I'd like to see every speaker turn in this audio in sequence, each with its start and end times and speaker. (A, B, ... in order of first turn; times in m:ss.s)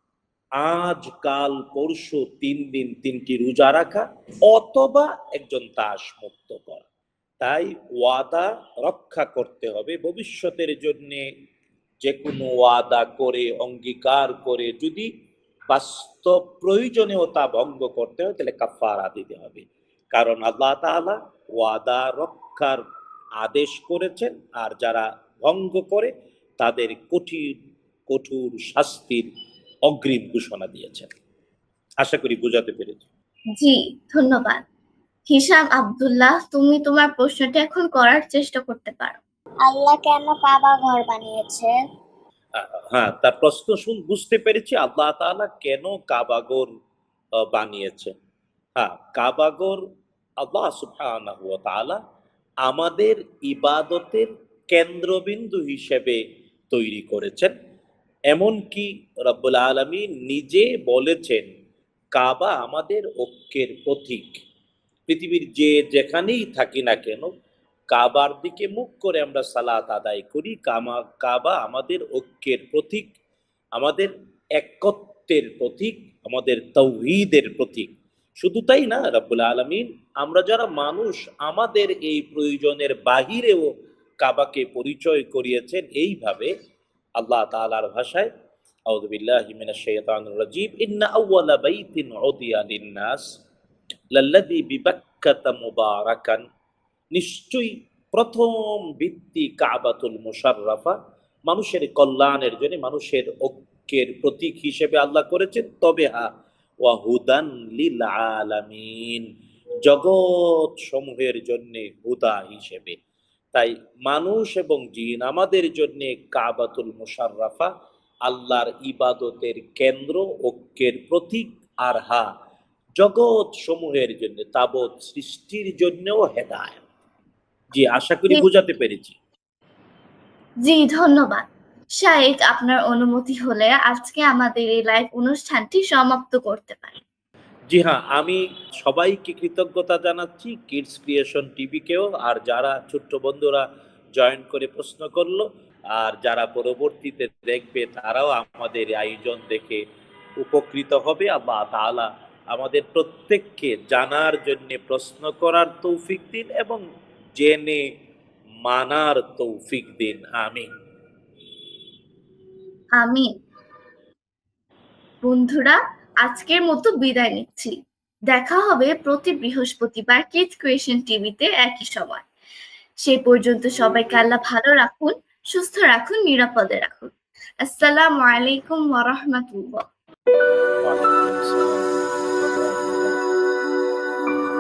0:00.6-0:06.9 A
0:07.4-0:11.3 A
0:12.0-0:15.1 A
0:15.7-0:22.8 A
0:23.4-0:27.5 A
0:28.1-0:29.3 A
0:29.9-0:31.1 A
0:32.0-0:33.0 A
0:33.6-0:34.6 B
0:35.3-0:39.2 B
0:39.7-0:41.7 C
0:42.6-0:46.7 A
0:47.4-0:48.1 A
0:48.8-0:49.8 A
0:50.4-0:52.0 A
0:52.6-0:56.2 A
0:56.7-0:57.5 A
0:58.3-1:01.5 A
1:02.2-1:04.4 A
1:05.1-1:07.3 A
1:07.9-1:13.1 A
1:13.8-1:23.7 A
1:24.2-1:26.5 A
1:27.2-1:28.3 A
1:28.9-1:33.2 A
1:34.1-1:36.4 A
1:37.1-1:41.0 A
1:41.5-1:46.3 A
1:46.8-1:49.2 A
1:49.9-1:53.0 A
1:53.5-1:57.7 A
1:58.3-2:02.3 A
2:03.0-2:06.8 A
2:07.8-2:09.2 A
2:10.7-2:11.5 B
2:12.0-2:17.0 B
2:17.7-2:23.6 A
2:24.2-2:29.8 A
2:30.4-2:36.8 A
2:37.4-2:37.8 A
2:38.7-2:40.7 A
2:43.0-2:43.3 B
2:45.2-2:47.7 B
2:48.3-2:52.3 B
2:53.0-2:59.8 B
3:00.8-3:03.2 A